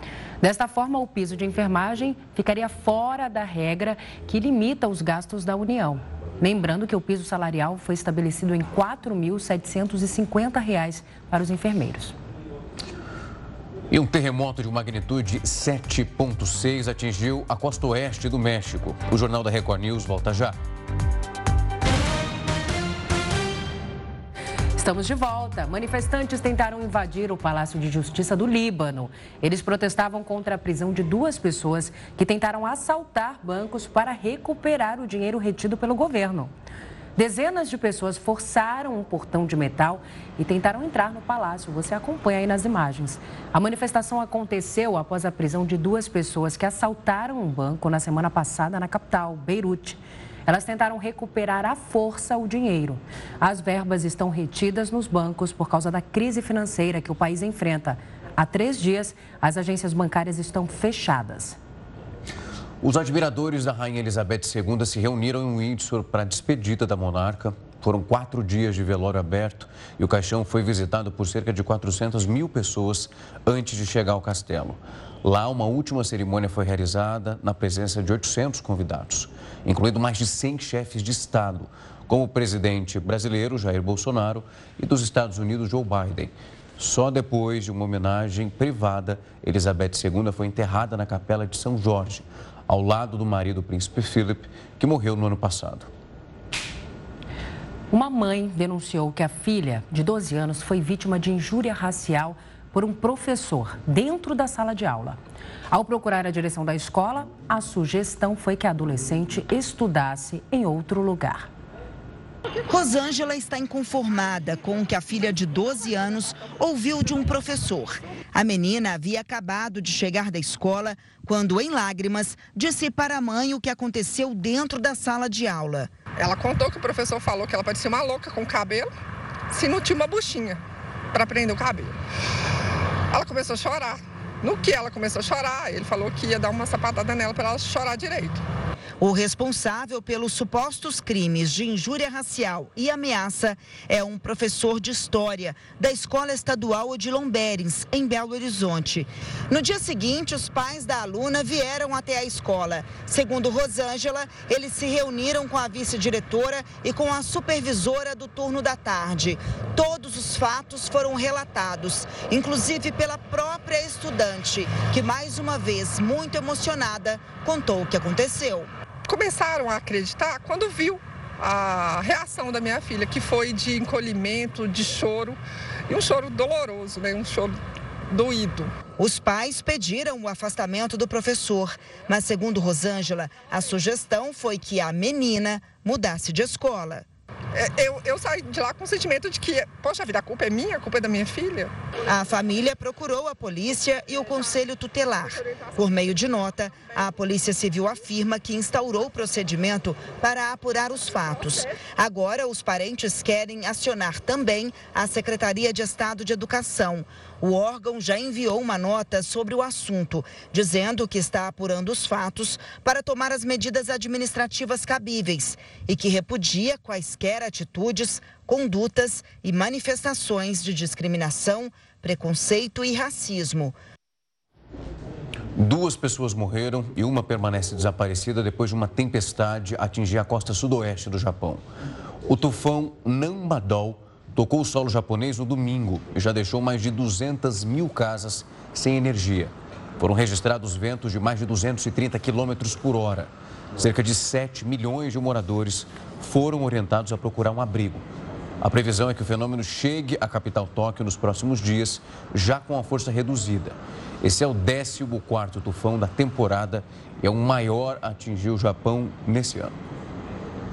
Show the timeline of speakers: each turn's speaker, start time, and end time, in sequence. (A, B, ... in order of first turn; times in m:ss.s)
0:00.4-0:12.2 A
0:13.9-0:20.6 B
0:24.8-0:36.5 A
0:37.2-1:01.6 A
1:02.8-1:35.9 B
1:37.9-1:45.2 A
1:45.7-1:51.5 A
1:52.7-2:05.9 C
2:06.2-2:08.9 D
2:09.5-2:10.6 D
2:11.1-2:12.0 D
2:13.1-2:18.4 D
2:19.0-2:48.7 C
2:49.1-2:58.7 D
2:59.0-3:07.0 C
3:07.6-3:11.7 D
3:12.1-3:43.7 C
3:45.6-3:51.6 B
3:52.3-4:08.1 B
4:08.6-4:19.7 B